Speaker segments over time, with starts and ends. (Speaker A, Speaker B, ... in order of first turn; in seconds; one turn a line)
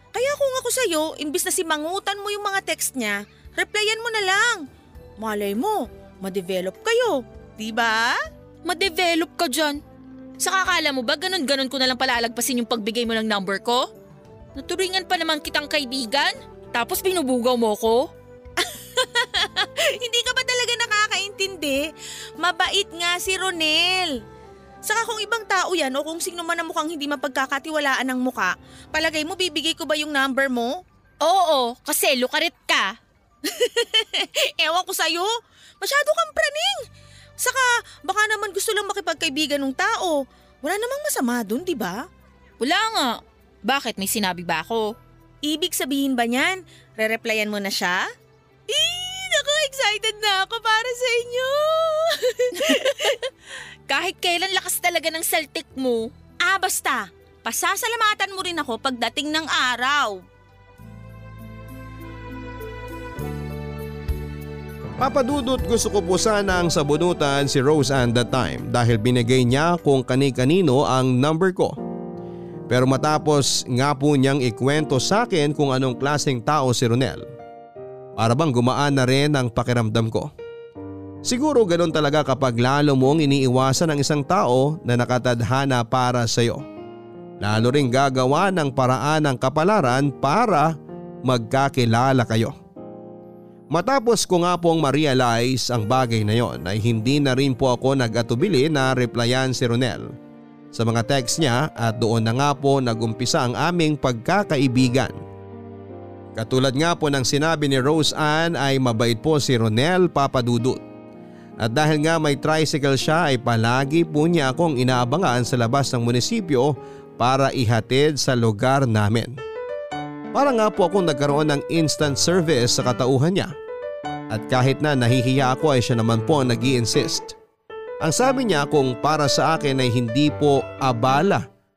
Speaker A: 0.1-4.6
Speaker A: 5.2-8.1
Speaker B: 8.6-9.8
Speaker B: 10.4-13.8
Speaker B: 14.6-18.0
Speaker A: 18.7-21.8
Speaker A: 22.4-24.1
Speaker A: 24.8-30.8
Speaker B: 31.2-32.9
Speaker A: 33.5-36.8
Speaker A: 37.4-42.0
Speaker B: 42.6-44.9
Speaker A: 45.4-48.0
Speaker A: 48.8-52.0
Speaker B: 52.6-53.1
Speaker B: 53.9-56.1
Speaker A: 56.4-60.2
Speaker C: 65.0-71.8
Speaker C: 72.7-77.2
Speaker C: 78.2-80.3
Speaker C: 81.2-86.6
Speaker C: 87.4-92.5
Speaker C: 93.7-100.1
Speaker C: 100.7-105.2
Speaker C: 106.3-110.8
Speaker C: 111.6-119.4
Speaker C: 120.3-123.5
Speaker C: 124.3-127.3
Speaker C: 128.0-131.5